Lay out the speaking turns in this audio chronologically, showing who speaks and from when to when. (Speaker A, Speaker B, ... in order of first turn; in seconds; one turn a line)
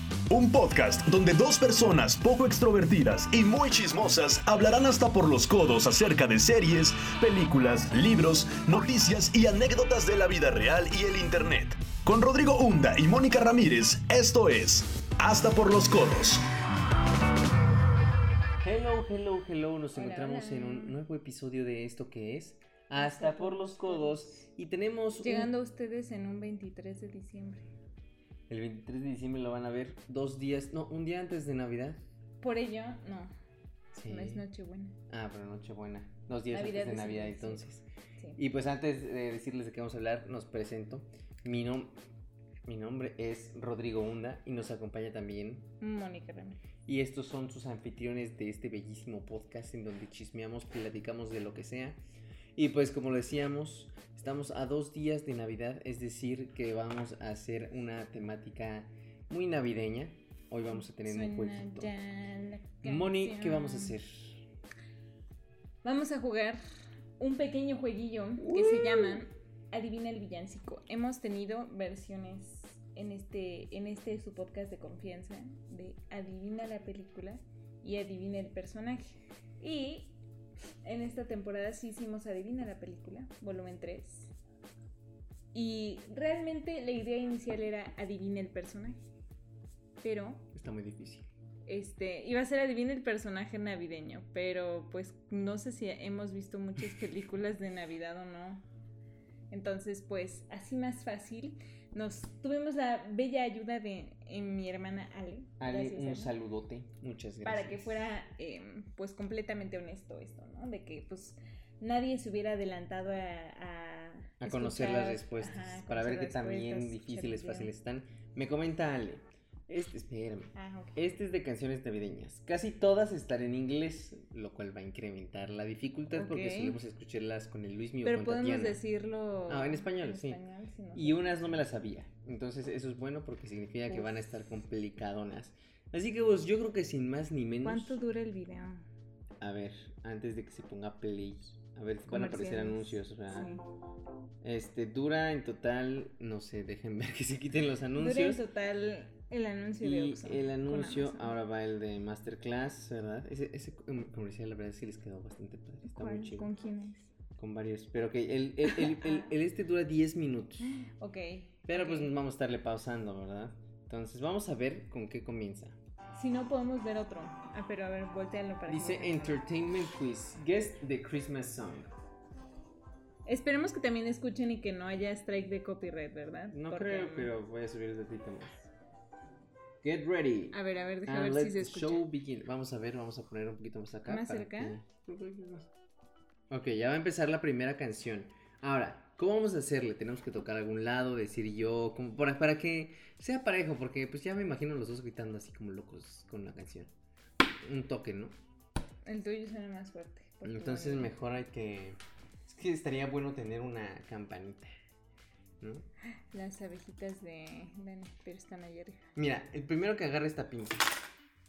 Speaker A: 0.3-16.4
Speaker B: 18.6-25.5
Speaker C: 19.9-21.0
Speaker C: 22.9-24.4
Speaker C: 25.2-27.7
Speaker B: 28.5-32.0
Speaker C: 32.4-33.3
Speaker B: 33.9-34.4
Speaker C: 34.1-35.0
Speaker B: 35.1-37.8
Speaker C: 36.5-37.6
Speaker B: 38.4-42.0
Speaker B: 42.6-45.7
Speaker C: 45.8-46.6
Speaker B: 46.9-52.0
Speaker B: 52.5-61.9
Speaker C: 60.7-64.0
Speaker B: 62.8-64.5
Speaker C: 65.8-66.6
Speaker C: 67.2-80.2
Speaker B: 68.4-69.2
Speaker C: 80.8-84.3
Speaker C: 85.5-89.0
Speaker C: 90.0-90.5
Speaker B: 90.5-91.3
Speaker C: 91.7-98.6
Speaker C: 99.5-106.3
Speaker B: 105.6-108.1
Speaker C: 107.4-117.7
Speaker B: 114.4-128.8
Speaker C: 120.5-121.0
Speaker C: 126.1-126.8
Speaker C: 128.0-131.3
Speaker B: 129.5-130.4
Speaker B: 130.9-138.0
Speaker C: 137.6-138.8
Speaker B: 139.4-143.5
Speaker C: 142.1-143.6
Speaker B: 144.4-148.4
Speaker C: 147.9-151.3
Speaker B: 149.8-156.5
Speaker C: 155.9-157.1
Speaker B: 157.4-160.7
Speaker C: 158.7-159.2
Speaker C: 160.7-162.1
Speaker B: 161.7-165.8
Speaker C: 166.1-169.4
Speaker B: 168.7-171.9
Speaker C: 173.2-177.3
Speaker B: 176.5-178.7
Speaker B: 179.8-185.7
Speaker C: 180.5-182.0
Speaker C: 184.1-184.8
Speaker B: 186.5-196.9
Speaker B: 197.6-198.3
Speaker C: 199.0-201.1
Speaker B: 200.4-204.7
Speaker B: 205.6-205.8
Speaker C: 206.3-209.0
Speaker B: 209.1-210.9